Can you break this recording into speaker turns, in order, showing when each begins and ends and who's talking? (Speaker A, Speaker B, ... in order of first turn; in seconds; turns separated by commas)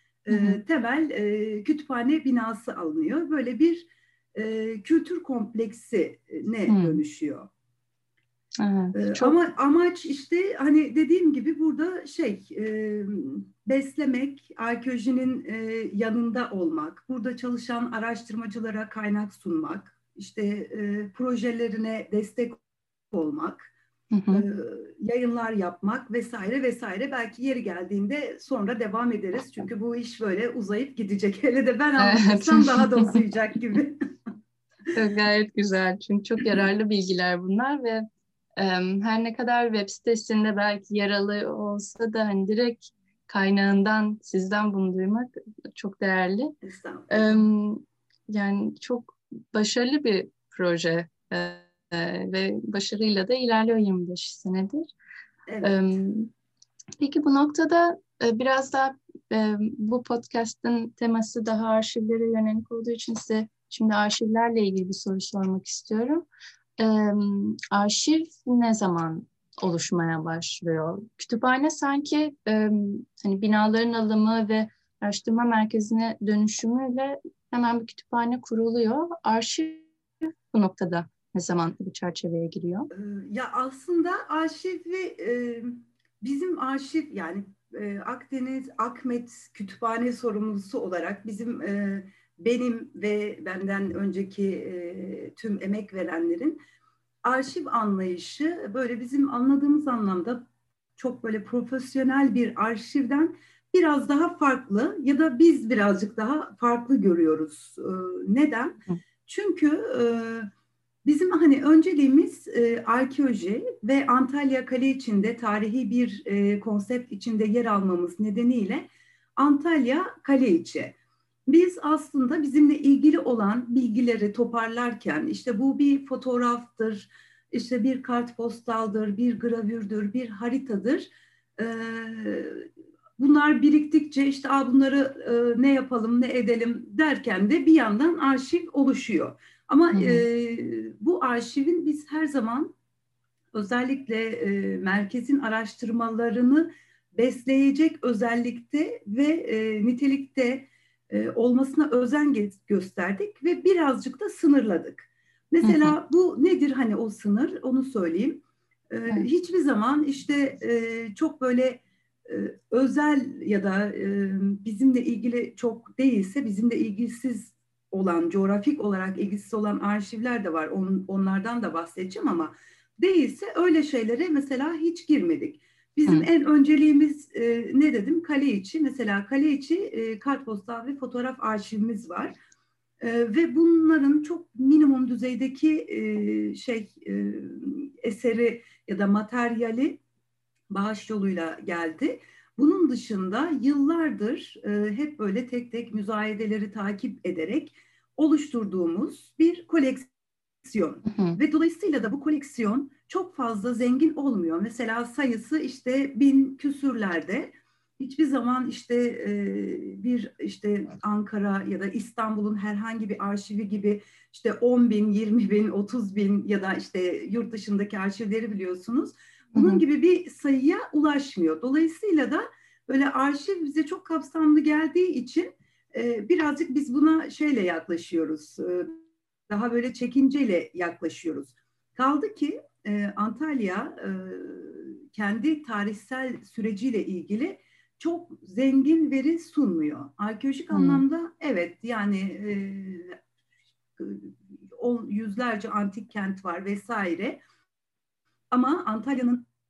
Speaker A: 0.2-7.5, Speaker B: 0.3-0.6, Speaker B: 6.7-7.0, Speaker B: 8.6-9.3, Speaker A: 8.9-22.6, Speaker A: 23.1-23.7, Speaker B: 24.1-24.4, Speaker A: 24.3-34.0, Speaker B: 32.0-33.2, Speaker B: 34.9-38.0, Speaker B: 38.6-46.5, Speaker A: 46.6-47.4, Speaker B: 47.1-54.8, Speaker A: 55.5-56.0, Speaker B: 55.6-56.3, Speaker B: 57.0-66.3, Speaker B: 66.8-79.9, Speaker B: 80.5-82.9, Speaker A: 82.9-96.6, Speaker A: 97.2-100.4, Speaker A: 101.0-110.5, Speaker A: 111.0-120.9, Speaker A: 121.5-142.7, Speaker B: 139.9-140.2, Speaker A: 143.5-182.3, Speaker B: 155.6-155.9, Speaker A: 183.0-190.0, Speaker A: 190.7-200.1, Speaker A: 200.6-243.2, Speaker B: 201.1-201.4, Speaker B: 219.5-219.8, Speaker B: 240.7-241.0, Speaker A: 244.0-247.4, Speaker A: 248.5-249.4